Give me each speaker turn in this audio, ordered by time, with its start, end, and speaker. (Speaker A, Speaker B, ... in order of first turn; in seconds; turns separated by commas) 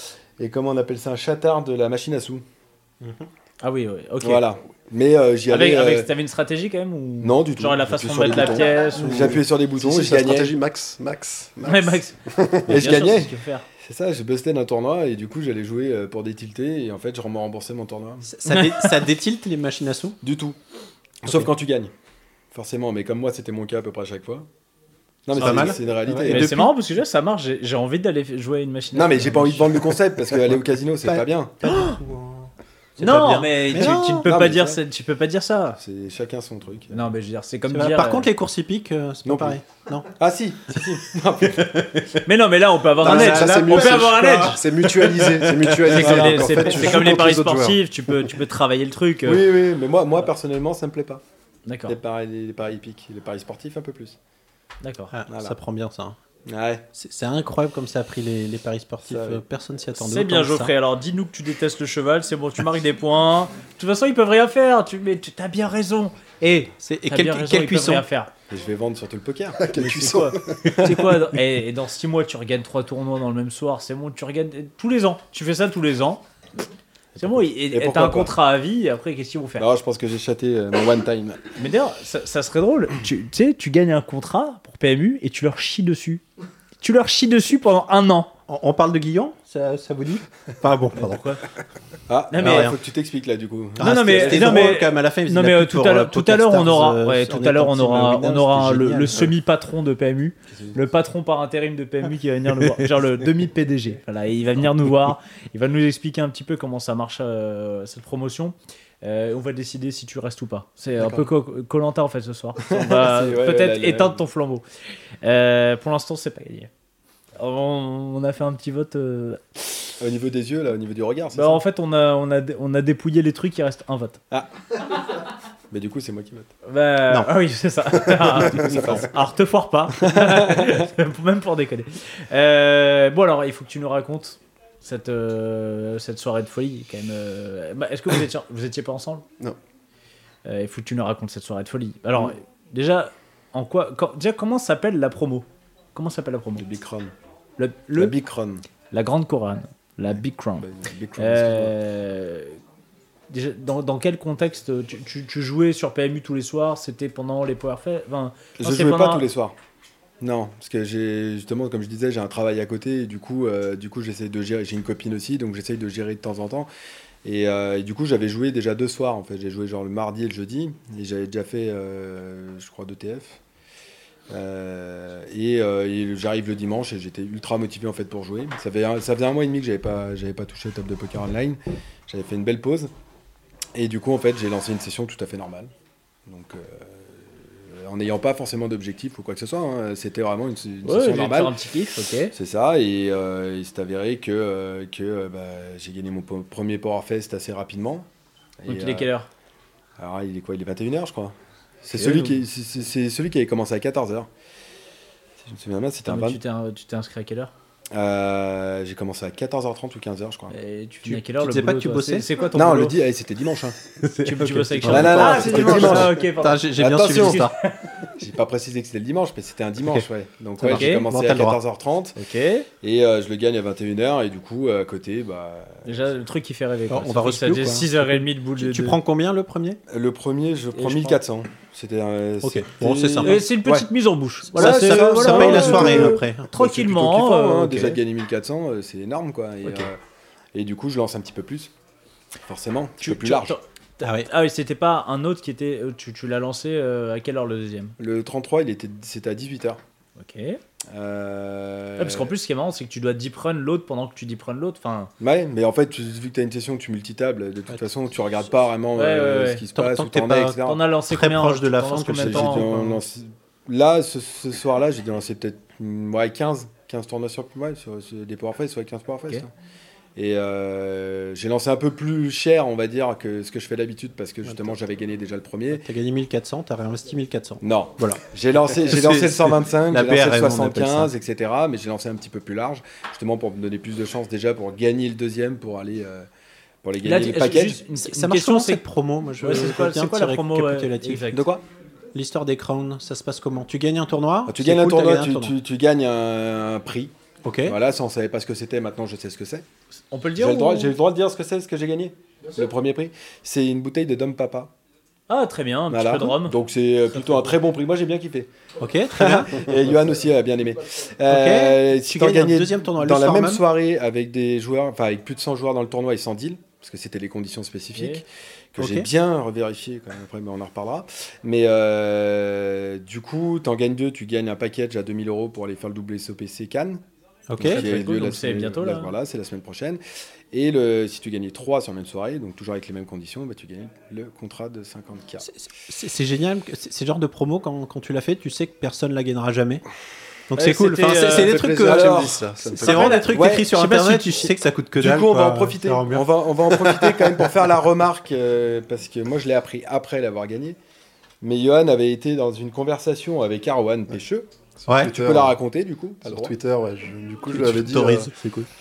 Speaker A: 0.4-2.4, Speaker B: 3.0-3.3, Speaker C: 3.6-4.4, Speaker A: 4.2-6.1, Speaker C: 5.5-9.3, Speaker A: 7.2-10.5, Speaker D: 8.9-12.8, Speaker C: 11.7-13.6, Speaker A: 12.7-18.3, Speaker B: 18.2-20.2, Speaker C: 18.5-18.9, Speaker A: 20.2-20.6, Speaker A: 21.2-21.9, Speaker A: 22.5-24.5, Speaker A: 25.2-26.6, Speaker B: 25.3-26.7, Speaker C: 25.4-25.7, Speaker C: 26.3-29.7, Speaker A: 28.9-31.6, Speaker B: 31.0-34.3, Speaker C: 33.0-35.8, Speaker A: 33.7-34.8, Speaker A: 35.8-37.1, Speaker C: 36.9-38.3, Speaker B: 37.7-40.1, Speaker A: 39.2-39.6, Speaker A: 40.1-42.0, Speaker B: 41.6-41.8, Speaker C: 42.2-44.6, Speaker B: 43.0-45.7, Speaker D: 43.0-47.8, Speaker A: 45.9-47.1, Speaker C: 45.9-49.4, Speaker A: 49.2-51.2, Speaker C: 51.6-52.0, Speaker A: 51.9-54.1, Speaker C: 54.8-55.1, Speaker B: 55.1-56.2, Speaker A: 55.3-55.5, Speaker A: 56.5-56.9, Speaker B: 56.9-60.7, Speaker A: 59.1-59.4, Speaker C: 59.9-68.3, Speaker B: 66.8-68.0, Speaker A: 68.5-70.0, Speaker D: 69.6-70.8, Speaker C: 69.8-76.2, Speaker A: 70.6-70.9, Speaker A: 77.2-78.3, Speaker C: 77.2-79.7, Speaker A: 79.6-81.4, Speaker C: 81.6-86.2, Speaker C: 86.8-88.3, Speaker B: 88.5-91.2, Speaker C: 91.0-91.4, Speaker A: 92.1-94.8, Speaker C: 92.3-92.7, Speaker B: 92.4-92.7, Speaker B: 93.8-99.3, Speaker C: 93.8-114.6, Speaker A: 100.5-100.8, Speaker A: 112.6-114.2, Speaker C: 115.2-116.7, Speaker C: 117.4-119.4, Speaker A: 120.0-121.6, Speaker C: 121.3-124.2, Speaker A: 125.7-126.5, Speaker C: 126.6-139.2, Speaker A: 128.3-129.1, Speaker B: 128.6-128.9, Speaker A: 130.0-130.8, Speaker C: 140.4-146.6, Speaker A: 146.6-147.1, Speaker C: 147.6-148.1, Speaker A: 148.0-148.6, Speaker C: 148.9-152.6, Speaker A: 150.6-151.7, Speaker C: 153.3-159.2, Speaker A: 158.6-159.5, Speaker A: 160.2-166.7, Speaker A: 167.2-173.4, Speaker A: 174.3-182.9, Speaker A: 183.7-185.7, Speaker A: 186.3-191.5, Speaker C: 190.8-192.3, Speaker A: 192.3-198.1, Speaker A: 198.6-199.1, Speaker C: 198.7-199.3, Speaker A: 200.0-204.3, Speaker C: 201.9-202.4, Speaker A: 205.4-206.4, Speaker C: 206.1-207.5, Speaker A: 207.9-210.5, Speaker C: 210.5-212.9, Speaker B: 211.1-212.3, Speaker A: 212.5-213.8, Speaker B: 214.0-217.5, Speaker C: 214.2-217.8, Speaker A: 214.8-216.2, Speaker A: 216.8-217.4, Speaker A: 218.2-222.2, Speaker B: 220.6-221.6, Speaker C: 220.7-221.1, Speaker C: 222.2-222.7, Speaker A: 222.8-225.9, Speaker C: 225.8-229.0, Speaker B: 226.9-229.8, Speaker A: 229.9-233.9, Speaker C: 230.7-231.2, Speaker B: 232.4-233.4, Speaker C: 233.2-238.0, Speaker B: 234.5-236.6, Speaker A: 234.5-240.0, Speaker A: 240.5-241.7, Speaker A: 242.5-243.6, Speaker C: 243.0-247.9, Speaker B: 244.0-244.3, Speaker A: 248.0-249.8, Speaker C: 250.2-250.6, Speaker A: 250.9-252.3, Speaker C: 252.0-255.1, Speaker A: 255.2-260.8, Speaker C: 258.9-259.6, Speaker B: 259.7-263.0, Speaker C: 260.6-262.8, Speaker A: 262.2-269.5, Speaker A: 270.1-275.9, Speaker B: 274.4-274.7, Speaker B: 275.7-278.2, Speaker A: 277.6-286.3, Speaker B: 278.9-281.1, Speaker A: 286.8-287.8, Speaker C: 287.0-288.8, Speaker B: 288.0-291.2, Speaker C: 289.4-291.5, Speaker A: 291.3-291.6, Speaker B: 292.1-295.5, Speaker A: 294.5-297.1, Speaker B: 297.4-297.8, Speaker A: 297.6-299.6, Speaker C: 300.1-300.9, Speaker A: 300.4-304.7, Speaker C: 305.3-306.6, Speaker A: 305.9-308.5, Speaker B: 308.8-309.7, Speaker A: 309.1-327.0, Speaker B: 311.3-313.6, Speaker C: 317.9-318.2, Speaker B: 318.8-319.1, Speaker B: 327.5-327.9, Speaker A: 327.6-330.0, Speaker C: 327.6-329.1, Speaker A: 330.5-335.5, Speaker B: 335.4-339.8, Speaker B: 340.5-347.4, Speaker C: 340.6-341.6, Speaker D: 341.2-343.3, Speaker A: 341.8-342.6, Speaker C: 342.8-344.5, Speaker A: 343.3-343.8, Speaker A: 344.4-350.8, Speaker A: 351.4-354.5, Speaker D: 354.8-355.6, Speaker A: 355.0-356.5, Speaker D: 356.2-358.3, Speaker B: 357.5-358.7